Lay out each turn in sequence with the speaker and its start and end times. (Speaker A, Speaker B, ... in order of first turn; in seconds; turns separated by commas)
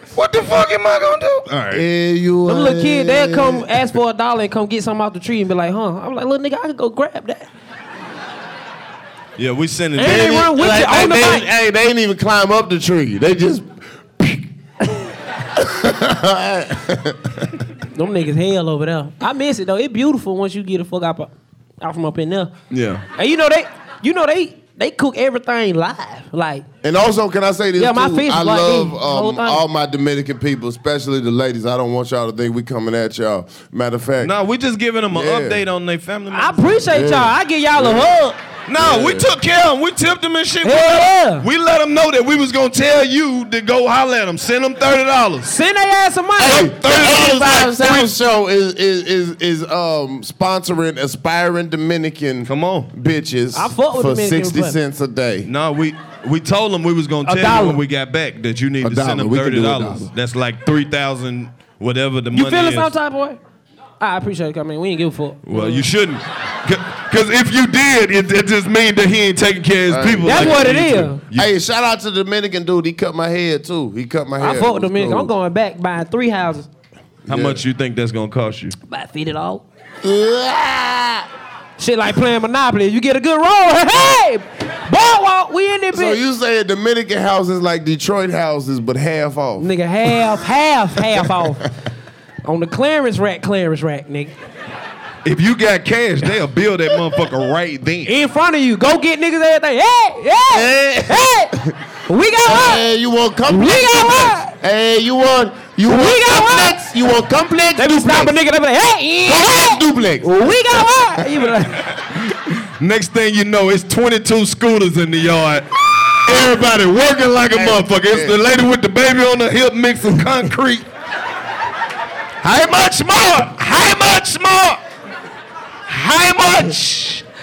Speaker A: 0.1-1.9, Speaker B: 1.7-3.8, Speaker C: 2.5-7.5, Speaker A: 9.4-10.5, Speaker C: 10.0-11.5, Speaker B: 10.0-14.4, Speaker B: 15.5-17.5, Speaker C: 17.9-22.5, Speaker A: 22.7-23.1, Speaker C: 23.2-26.6, Speaker B: 26.8-34.3, Speaker C: 27.8-29.6, Speaker A: 34.2-36.9, Speaker B: 35.1-35.6, Speaker C: 36.3-38.4, Speaker B: 36.9-38.1, Speaker A: 38.7-45.5, Speaker B: 38.8-39.3, Speaker C: 40.6-41.5, Speaker C: 45.4-46.7, Speaker B: 46.4-55.5, Speaker A: 46.4-48.1, Speaker A: 52.5-52.9, Speaker C: 53.5-54.8, Speaker A: 55.5-62.9, Speaker C: 57.3-57.8, Speaker B: 58.8-60.1, Speaker C: 62.3-63.4, Speaker C: 64.0-65.8, Speaker A: 65.5-71.5, Speaker B: 69.9-70.7, Speaker C: 70.2-71.2, Speaker B: 71.3-75.3, Speaker C: 74.4-76.7, Speaker B: 77.3-77.6, Speaker A: 77.3-78.7, Speaker C: 78.8-79.6, Speaker B: 80.0-81.3, Speaker C: 81.8-86.2, Speaker B: 85.9-89.7, Speaker C: 89.6-91.7, Speaker C: 92.5-94.3, Speaker A: 95.2-98.2, Speaker C: 98.1-101.5, Speaker B: 100.5-101.7, Speaker C: 102.1-102.8, Speaker B: 102.4-108.4, Speaker C: 103.5-104.5, Speaker C: 105.9-106.8, Speaker C: 107.8-111.9, Speaker B: 109.3-110.3, Speaker A: 111.9-115.7, Speaker A: 116.2-120.9, Speaker B: 116.3-116.8, Speaker B: 117.5-118.4, Speaker A: 122.4-124.8, Speaker A: 125.9-127.2